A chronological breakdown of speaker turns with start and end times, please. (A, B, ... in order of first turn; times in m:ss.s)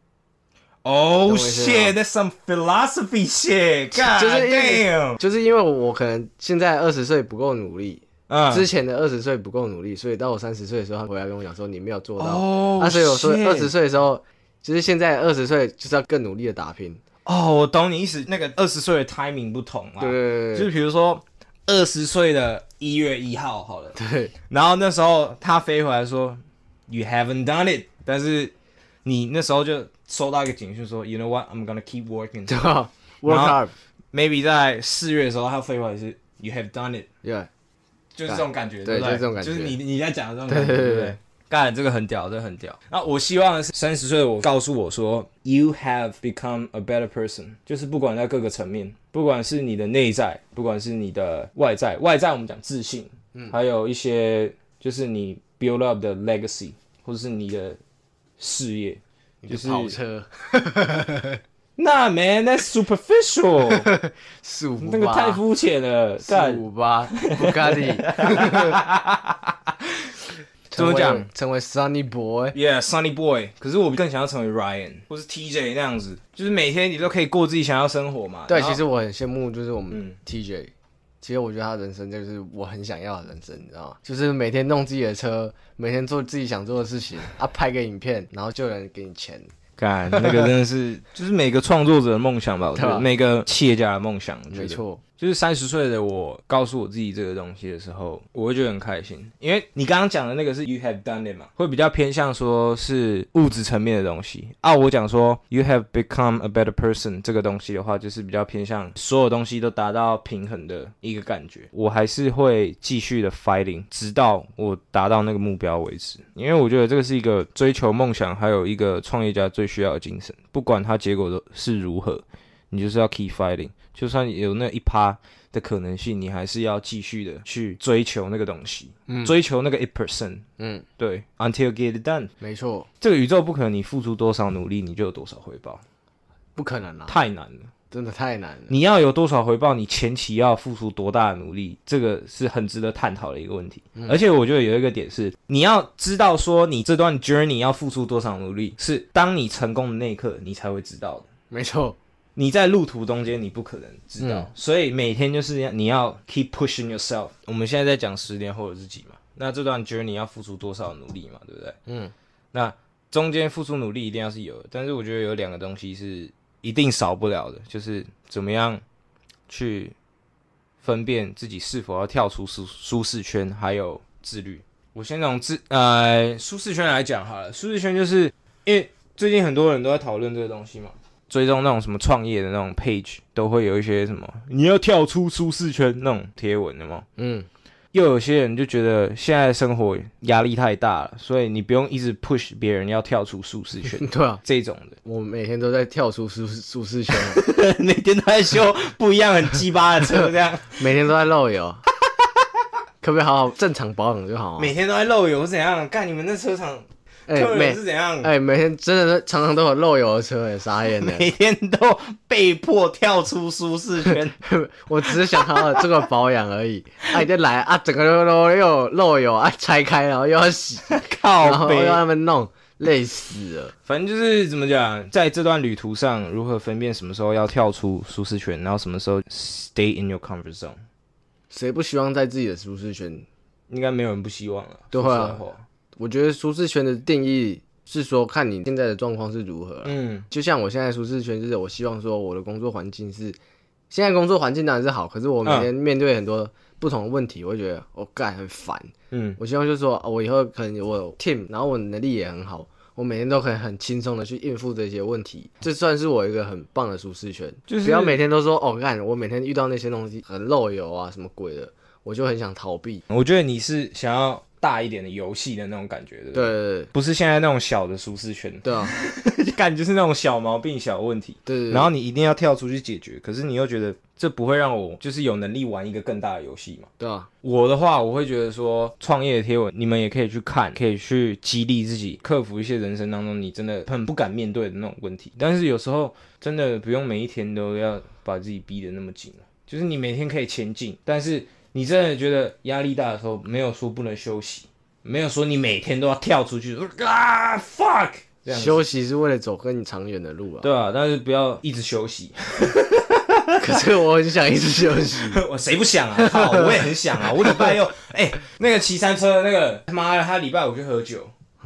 0:00.8-0:05.2 A
0:01.2-0:01.9 B
0:03.9-0:17.0 B
0:08.3-0:08.7 A
0:12.2-0:13.7 A
0:17.2-0:24.0 A
0:20.0-0:20.7 B
0:24.0-0:24.3 B
0:24.5-0:28.5 A
0:29.0-0:32.6 A
0:32.5-0:33.7 B
0:33.2-0:33.6 A
0:34.1-0:37.1 A
0:37.2-0:37.5 B
0:38.1-0:57.8 A
0:38.3-0:39.8 B
0:40.5-0:41.2 B
0:58.4-1:00.0 A
0:59.4-1:01.4 B
1:01.8-1:03.9 A
1:03.7-1:05.4 B
1:04.8-1:09.9 A
1:06.2-1:08.8 B
1:10.7-1:11.3 A
1:10.7-1:12.6 B
1:12.5-1:18.8 A
1:18.5-1:29.5 B
1:19.9-1:20.2 A
1:29.8-2:10.4 A
1:30.1-1:30.5 B
1:32.7-1:33.1 B
1:34.5-1:35.0 B
2:09.1-2:09.3 B
2:10.6-2:10.8 B
2:11.0-2:12.3 A
2:12.4-2:12.9 B
2:13.0-2:15.8 A
2:16.6-2:17.1 B
2:17.1-2:17.7 A
2:17.9-2:18.7 B
2:18.7-2:31.3 A
2:31.5-2:32.0 B
2:32.4-2:41.8 A
2:34.2-2:34.5 B
2:41.9-2:42.1 B
2:42.5-2:48.8 A
2:49.5-2:49.9 A
2:50.8-3:07.0 A
3:07.2-3:07.5 B
3:07.9-3:15.0 A
3:14.0-3:14.4 B
3:15.0-3:17.4 B
3:17.1-3:20.8 A
3:20.8-3:21.8 B
3:23.0-3:24.7 B
3:24.6-3:28.3 A
3:27.3-3:31.3 B
3:31.0-3:34.4 A
3:34.4-3:43.7 B
3:35.1-3:35.9 A
3:40.9-3:42.0 A
3:43.8-3:50.8 A
3:51.5-3:53.2 B
3:53.7-3:55.6 A
3:54.9-3:55.4 B
3:56.0-4:03.4 B
3:59.8-4:00.3 A
4:03.9-4:23.0 B
4:09.1-4:09.4 A
4:17.7-4:18.2 A
4:23.1-4:36.9 A
4:26.3-4:26.9 B
4:28.6-4:28.9 B
4:31.4-4:31.9 B
4:37.0-4:37.3 B
4:37.4-4:58.8 A
4:58.5-5:00.7 B
5:00.6-5:03.8 A
5:03.6-5:05.4 B
5:05.1-5:11.3 A
5:06.2-5:07.8 B